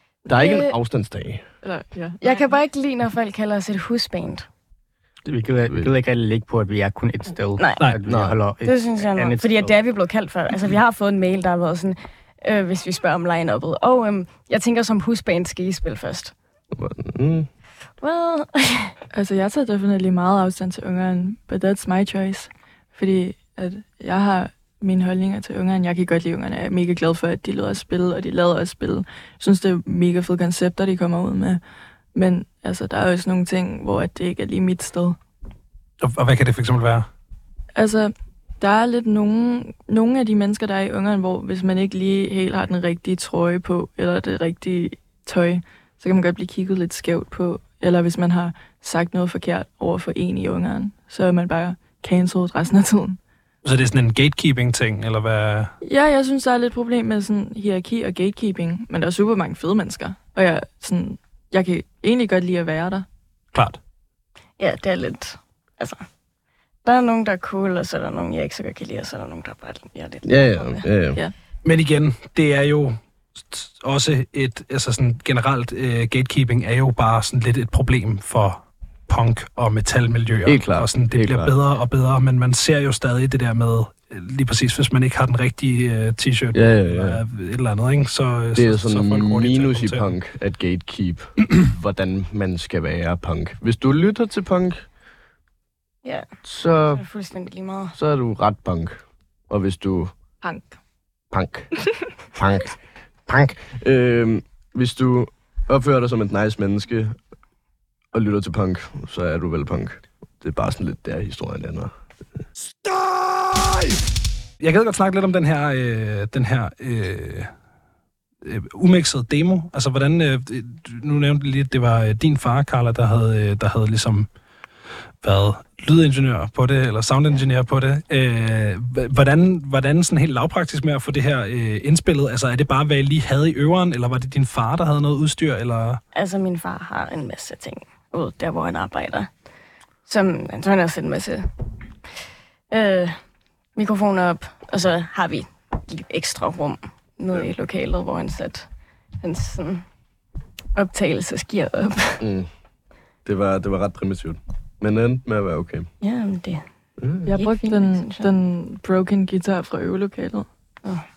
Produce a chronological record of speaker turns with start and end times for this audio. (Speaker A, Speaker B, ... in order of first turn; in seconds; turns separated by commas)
Speaker A: 0.3-1.4, Speaker B: 0.4-0.8, Speaker C: 1.6-2.4, Speaker B: 2.2-4.5, Speaker D: 5.2-9.7, Speaker A: 8.1-8.4, Speaker B: 8.6-16.3, Speaker A: 16.7-17.5, Speaker B: 18.0-18.9, Speaker C: 19.1-31.6, Speaker C: 32.1-35.2, Speaker E: 36.0-37.1, Speaker C: 37.7-53.2, Speaker E: 53.6-55.7, Speaker C: 55.8-63.0, Speaker E: 63.5-63.8, Speaker B: 64.6-66.0, Speaker B: 66.8-70.8, Speaker A: 70.2-71.2, Speaker E: 71.6-90.1, Speaker A: 80.5-81.5, Speaker A: 86.5-87.2, Speaker A: 88.5-94.8, Speaker A: 96.4-97.0, Speaker B: 96.9-98.0, Speaker A: 98.0-100.1, Speaker C: 100.4-100.8, Speaker A: 101.3-101.7, Speaker A: 102.3-107.2, Speaker A: 108.1-111.9, Speaker E: 112.8-114.0, Speaker E: 114.6-117.5, Speaker E: 118.4-124.3, Speaker E: 125.2-136.0, Speaker B: 136.1-139.3, Speaker B: 140.1-141.4, Speaker B: 142.7-143.2, Speaker B: 143.8-148.7, Speaker B: 149.2-149.8, Speaker B: 150.7-152.2, Speaker A: 152.2-152.5, Speaker A: 153.2-155.9, Speaker B: 156.0-156.6, Speaker A: 157.0-157.3, Speaker C: 157.2-160.5, Speaker B: 157.3-158.3